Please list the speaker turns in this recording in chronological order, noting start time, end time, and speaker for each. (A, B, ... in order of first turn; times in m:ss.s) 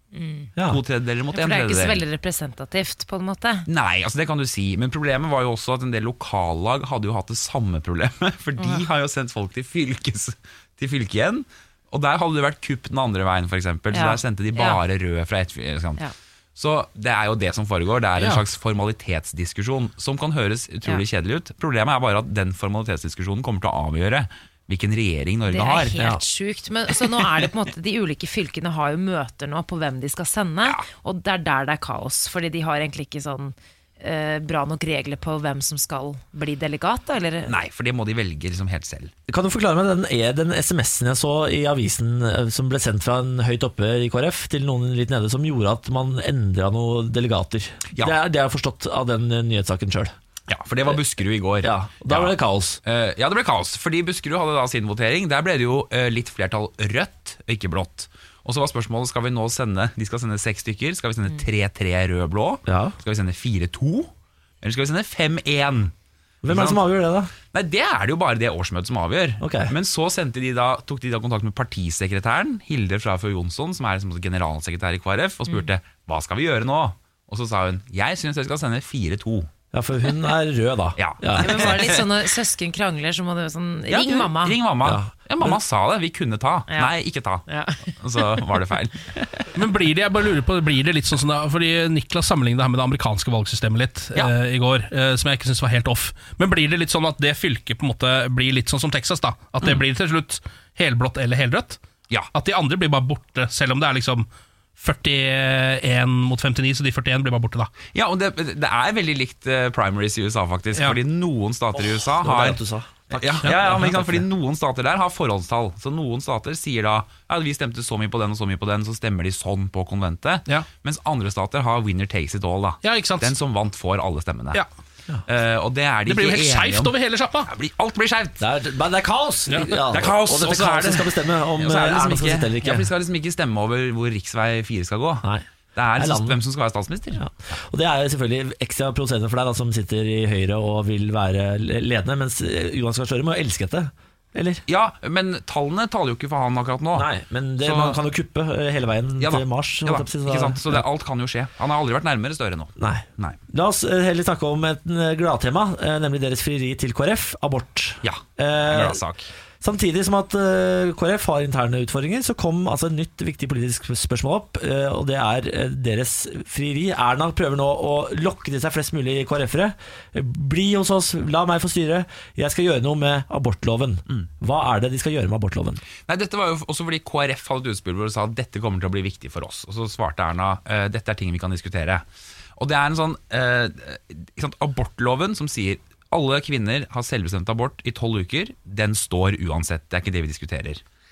0:00.1-0:00.5 A
0:00.6-0:00.8 B
0:00.6-0:02.0 C
0:01.3-0:03.7 A
0:03.7-0:16.0 C
0:08.6-0:08.8 A
0:13.9-0:14.8 A
0:16.6-0:26.0 C
0:25.5-0:37.5 A
0:37.4-0:39.1 C
0:39.3-0:50.1 B
0:47.9-0:48.2 C
0:50.5-1:04.1 C
0:51.6-0:52.8 B
1:02.7-1:03.0 B
1:04.6-1:05.9 C
1:06.4-1:07.3 B
1:06.4-1:19.5 C
1:09.4-1:09.7 B
1:19.7-1:21.8 B
1:21.0-1:22.1 C
1:21.4-1:24.6 A
1:23.9-1:29.4 C
1:24.8-1:25.6 B
1:27.4-1:27.8 A
1:29.6-1:41.8 D
1:42.3-1:47.7 D
1:47.8-2:04.6 C
1:51.7-1:54.2 B
1:53.4-1:53.9 D
2:02.8-2:03.3 D
2:05.3-2:08.4 C
2:06.1-2:07.5 D
2:08.4-2:12.9 B
2:09.5-2:09.8 D
2:09.7-2:17.2 C
2:16.0-2:16.4 B
2:17.2-2:24.6 B
2:24.7-2:28.0 C
2:27.0-2:30.8 B
2:29.2-2:33.4 C
2:32.8-2:39.0 B
2:38.0-2:39.3 C
2:39.6-2:55.8 B
2:56.0-3:02.0 C
3:02.6-3:10.8 C